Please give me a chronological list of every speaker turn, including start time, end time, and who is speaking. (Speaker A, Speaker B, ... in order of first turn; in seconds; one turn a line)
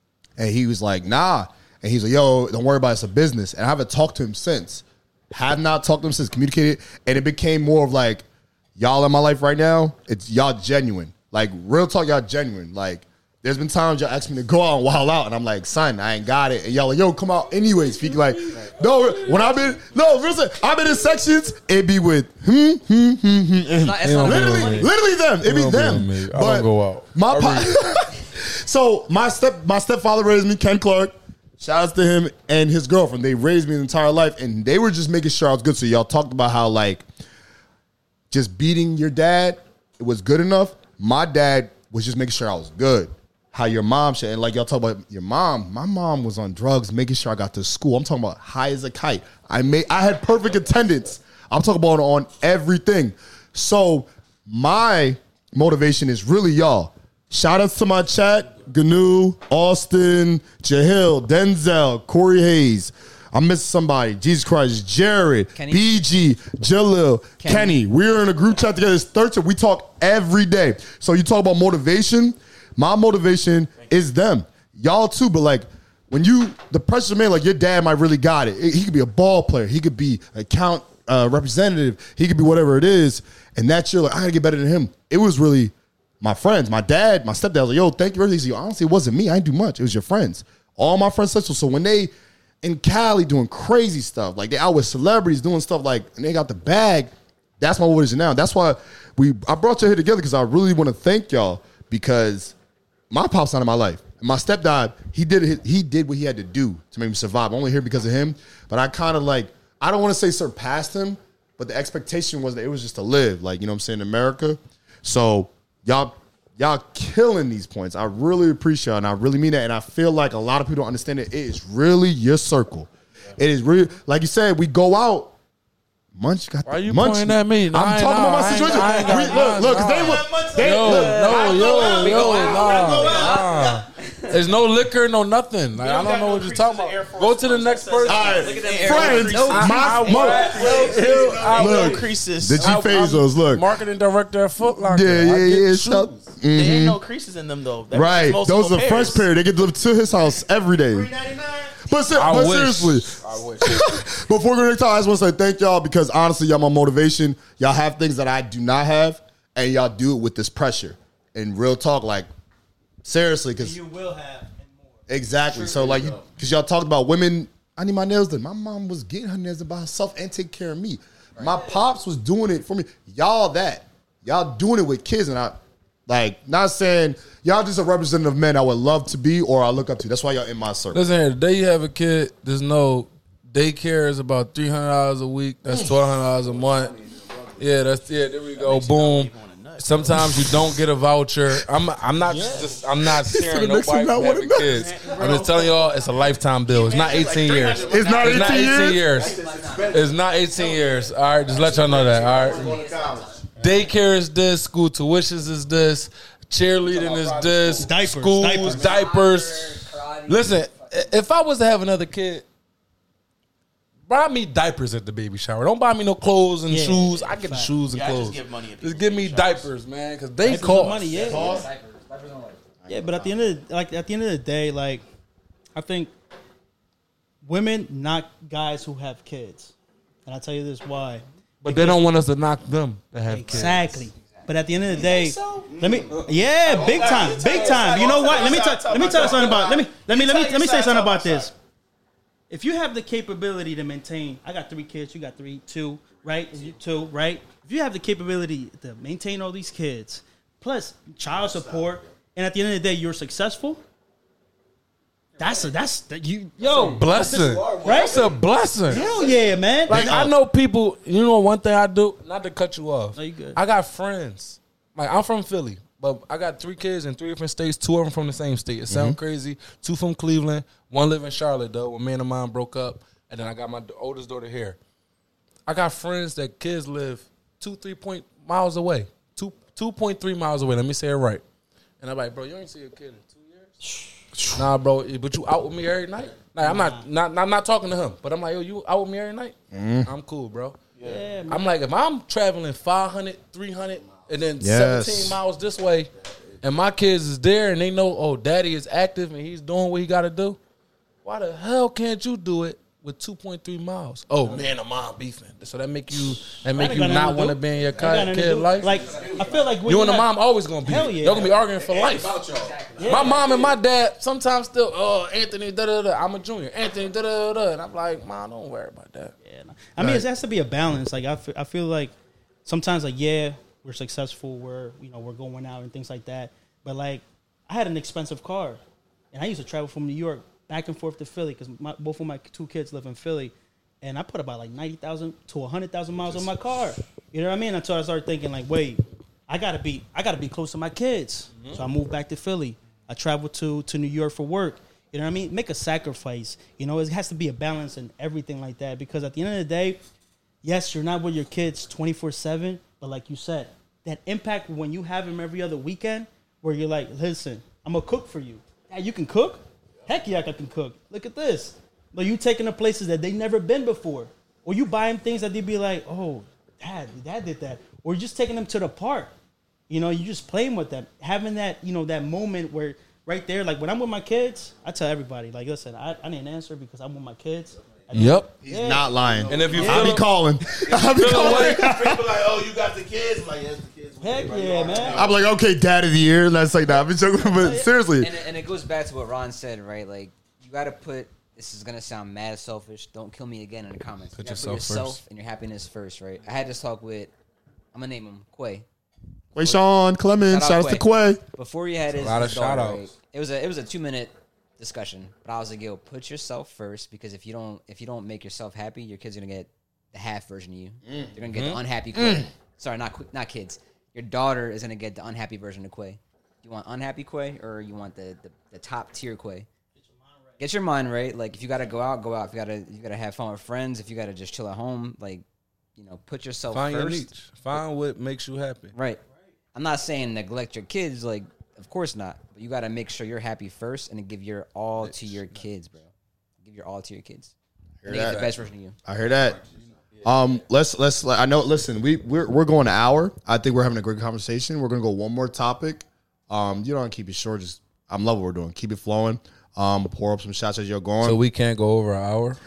Speaker A: 0.4-8.2
Speaker A: 8.8-37.0
Speaker B: 17.6-20.2
Speaker C: 23.7-24.9
Speaker B: 24.0-24.9
Speaker B: 25.4-27.7
Speaker A: 38.3-92.1
Speaker C: 65.5-65.8
Speaker C: 67.4-67.8
Speaker A: 92.6-102.5
Speaker A: 103.1-125.3
Speaker A: 126.2-131.3
Speaker B: 126.7-138.4
Speaker D: 128.5-133.9
Speaker C: 130.6-134.5
Speaker E: 135.8-142.9
Speaker A: 138.0-140.4
Speaker C: 138.2-140.9
Speaker B: 139.3-146.3
Speaker D: 140.2-141.8
Speaker A: 141.6-143.7
Speaker A: 144.8-147.0
Speaker E: 146.5-149.2
Speaker A: 147.9-151.1
Speaker D: 150.8-151.9
Speaker A: 151.8-162.3
Speaker B: 152.1-154.0
Speaker A: 163.0-163.8
Speaker D: 163.6-164.9
Speaker A: 165.1-181.1
Speaker F: 165.6-166.2
Speaker D: 171.4-171.8
Speaker B: 180.9-187.0
Speaker A: 185.7-186.0
Speaker F: 186.3-187.6
Speaker B: 187.6-199.4
Speaker E: 188.6-190.2
Speaker A: 190.1-190.8
Speaker D: 192.2-192.7
Speaker A: 193.0-194.8
Speaker D: 194.7-195.9
Speaker E: 196.7-198.1
Speaker F: 196.8-203.6
Speaker A: 197.8-199.1
Speaker C: 197.8-203.9
Speaker B: 199.9-202.8
Speaker B: 203.5-212.4
Speaker F: 206.9-207.9
Speaker C: 206.9-207.8
Speaker D: 207.8-208.8
Speaker C: 208.6-211.1
Speaker F: 208.6-209.0
Speaker B: 214.1-221.4
Speaker D: 216.7-217.7
Speaker E: 217.9-219.7
Speaker D: 220.4-221.5
Speaker C: 220.5-222.8
Speaker A: 221.2-221.7
Speaker A: 222.8-223.3
Speaker D: 222.9-225.0
Speaker D: 225.7-226.1
Speaker D: 227.4-229.7
Speaker D: 230.2-232.0
Speaker B: 231.6-233.8
Speaker D: 233.3-241.5
Speaker C: 233.3-235.0
Speaker E: 234.9-236.0
Speaker F: 235.7-236.0
Speaker B: 236.0-238.4
Speaker E: 236.7-241.5
Speaker F: 236.7-238.5
Speaker D: 242.5-253.8
Speaker D: 255.4-257.2
Speaker B: 256.6-259.3
Speaker F: 256.8-259.4
Speaker D: 257.8-258.2
Speaker D: 258.9-260.2
Speaker B: 259.9-274.8
Speaker A: 259.9-260.3
Speaker D: 263.1-263.6
Speaker A: 268.9-269.2
Speaker B: 275.6-281.4
Speaker B: 282.0-283.8
Speaker D: 283.8-284.2
Speaker A: 284.3-284.6
Speaker B: 284.5-290.8
Speaker D: 286.6-287.1
Speaker A: 289.7-290.1
Speaker D: 291.0-291.6
Speaker B: 291.5-300.6
Speaker A: 294.6-295.4
Speaker B: 301.2-309.1
Speaker D: 306.7-312.3
Speaker C: 308.8-309.8
Speaker B: 309.8-312.5
Speaker C: 311.9-313.8
Speaker F: 312.4-312.7
Speaker D: 313.0-313.4
Speaker B: 313.0-319.3
Speaker D: 319.4-322.1
Speaker A: 320.0-320.2
Speaker D: 322.6-328.8
Speaker D: 329.3-350.0
Speaker B: 341.6-341.8
Speaker D: 350.6-369.3
Speaker D: 369.9-379.1
Speaker B: 378.1-378.5
Speaker A: 378.6-382.4
Speaker F: 379.0-380.2
Speaker B: 379.5-380.3
Speaker D: 379.7-380.2
Speaker F: 380.9-385.4
Speaker B: 380.9-381.9
Speaker D: 384.2-385.2
Speaker A: 385.1-388.3
Speaker D: 387.4-387.9
Speaker C: 388.2-397.3
Speaker B: 394.3-395.2
Speaker C: 397.9-398.8
Speaker A: 399.5-401.4
Speaker C: 400.5-419.7
Speaker B: 402.1-403.1
Speaker A: 411.1-411.4
Speaker B: 411.5-411.8
Speaker A: 412.1-412.5
Speaker D: 419.9-420.6
Speaker C: 420.6-425.4
Speaker C: 426.0-427.3
Speaker B: 426.7-428.9
Speaker C: 428.9-429.2
Speaker C: 429.7-436.1
Speaker B: 435.0-435.6
Speaker C: 436.6-437.5
Speaker A: 438.0-438.5
Speaker C: 438.1-439.0
Speaker B: 438.1-438.5
Speaker A: 439.1-439.6
Speaker F: 439.2-440.1
Speaker B: 440.1-440.5
Speaker A: 440.2-451.4
Speaker B: 451.2-452.6